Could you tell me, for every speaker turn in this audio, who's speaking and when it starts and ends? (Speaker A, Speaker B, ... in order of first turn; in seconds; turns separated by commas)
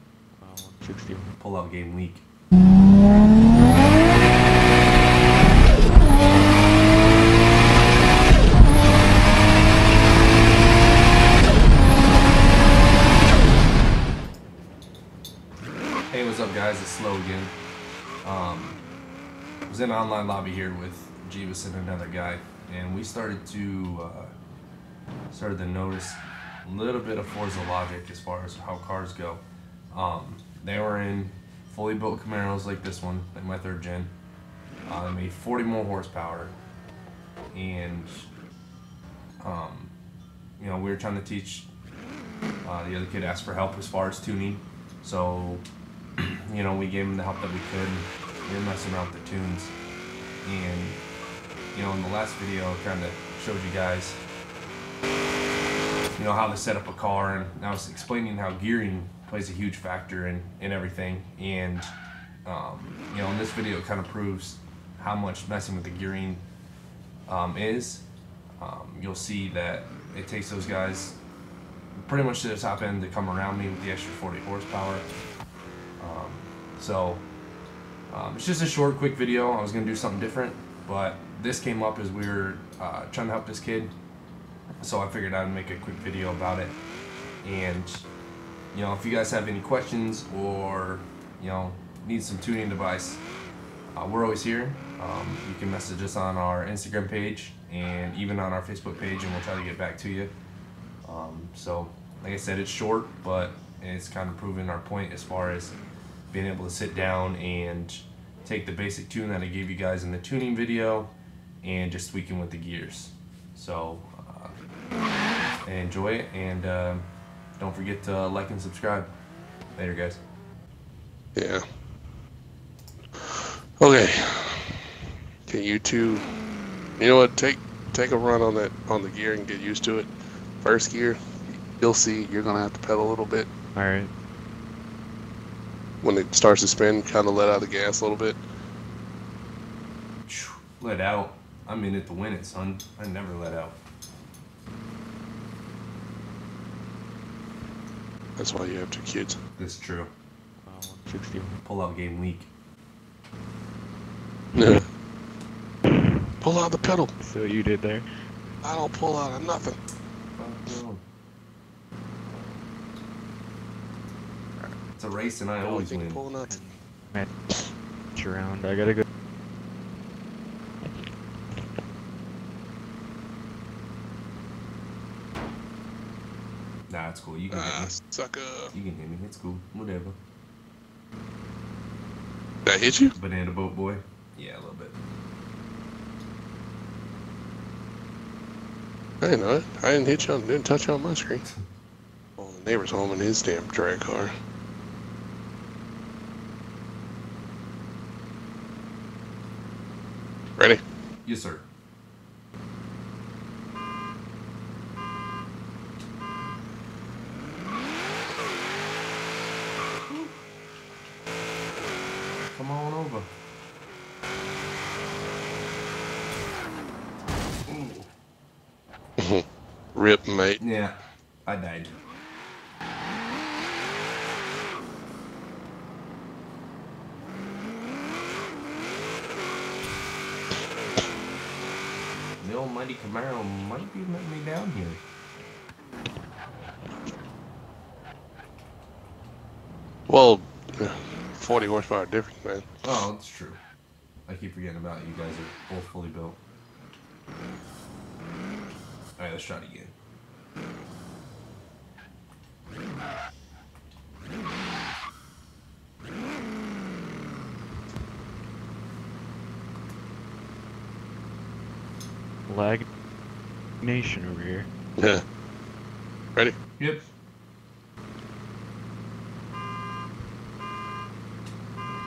Speaker A: 0.4-1.4, Speaker B: 1.4-2.2, Speaker B: 16.1-17.5, Speaker B: 18.2-18.8, Speaker B: 19.7-24.3, Speaker B: 25.3-34.1, Speaker B: 34.9-36.6, Speaker B: 37.5-38.3, Speaker B: 39.4-39.9, Speaker B: 40.6-41.7, Speaker B: 42.6-45.6, Speaker B: 46.2-49.8, Speaker B: 50.4-51.0, Speaker B: 51.7-54.2, Speaker B: 56.2-61.9, Speaker B: 62.5-66.5, Speaker B: 67.3-68.0, Speaker B: 68.6-71.2, Speaker B: 72.0-75.1, Speaker B: 76.0-77.3, Speaker B: 78.1-84.0, Speaker B: 84.8-86.8, Speaker B: 87.4-88.1, Speaker B: 88.7-93.2, Speaker B: 93.9-100.3, Speaker B: 101.0-105.8, Speaker B: 106.3-114.6, Speaker B: 115.6-117.0, Speaker B: 117.6-119.1, Speaker B: 119.8-120.2, Speaker C: 121.3-121.6, Speaker C: 123.2-124.9, Speaker C: 125.5-126.2, Speaker C: 127.0-133.5, Speaker A: 133.8-134.1, Speaker C: 136.0-138.4, Speaker B: 140.3-143.8, Speaker C: 148.4-149.4, Speaker B: 149.6-150.1, Speaker A: 150.6-151.6, Speaker B: 151.6-152.5, Speaker C: 154.6-154.9, Speaker C: 156.4-157.2, Speaker A: 157.2-158.1, Speaker C: 158.6-159.8, Speaker B: 160.4-161.0, Speaker B: 165.0-166.2, Speaker C: 165.6-166.5, Speaker A: 166.4-167.6, Speaker A: 168.1-169.1, Speaker B: 176.9-178.0, Speaker C: 177.5-178.7, Speaker B: 178.7-180.2, Speaker C: 182.7-183.2, Speaker B: 183.2-185.0, Speaker C: 189.2-191.4, Speaker C: 192.4-194.3, Speaker C: 200.6-200.8, Speaker B: 201.2-201.7, Speaker B: 210.1-210.3, Speaker B: 212.5-213.3, Speaker B: 217.7-218.1, Speaker C: 219.2-220.6, Speaker B: 220.6-222.0, Speaker B: 232.4-235.0, Speaker C: 240.1-242.7, Speaker B: 242.8-243.6, Speaker B: 244.3-246.4, Speaker B: 249.2-249.9, Speaker A: 262.5-262.9, Speaker A: 263.8-264.7, Speaker C: 265.0-265.2, Speaker B: 266.8-267.1